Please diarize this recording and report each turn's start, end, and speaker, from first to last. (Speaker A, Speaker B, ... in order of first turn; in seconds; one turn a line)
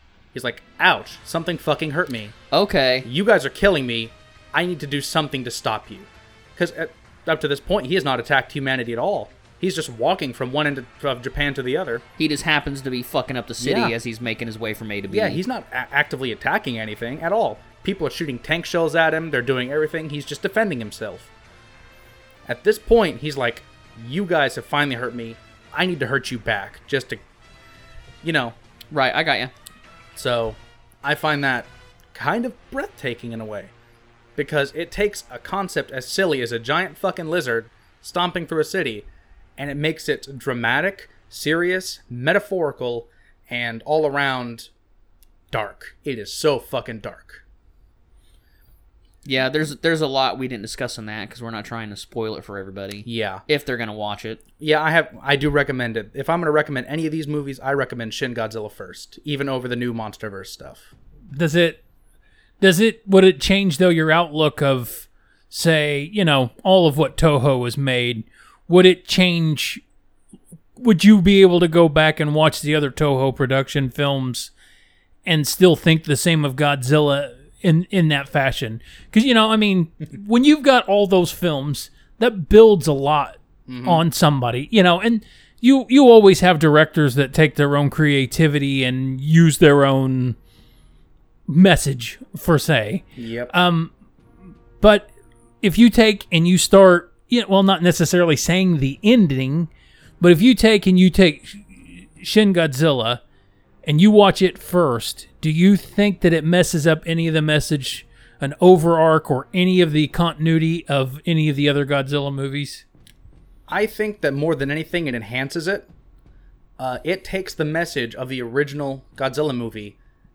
Speaker A: 0.3-2.3
Speaker B: 2.5-3.1
Speaker A: 3.0-12.0
Speaker B: 12.2-15.4
Speaker A: 13.6-13.9
Speaker A: 15.1-21.3
Speaker A: 22.4-27.2
Speaker A: 28.2-28.6
Speaker B: 28.9-29.5
Speaker A: 30.1-33.7
Speaker A: 34.4-44.7
Speaker A: 45.5-47.4
Speaker B: 49.2-54.4
Speaker A: 53.0-53.4
Speaker A: 54.6-60.9
Speaker C: 61.3-61.8
Speaker C: 62.6-69.8
Speaker C: 70.8-74.5
Speaker C: 75.2-90.3
Speaker A: 83.7-84.0
Speaker C: 91.5-93.9
Speaker A: 93.2-93.5
Speaker C: 94.8-95.1
Speaker C: 95.6-99.7
Speaker C: 100.2-103.2
Speaker C: 103.8-112.8
Speaker A: 113.7-115.9
Speaker A: 116.8-120.0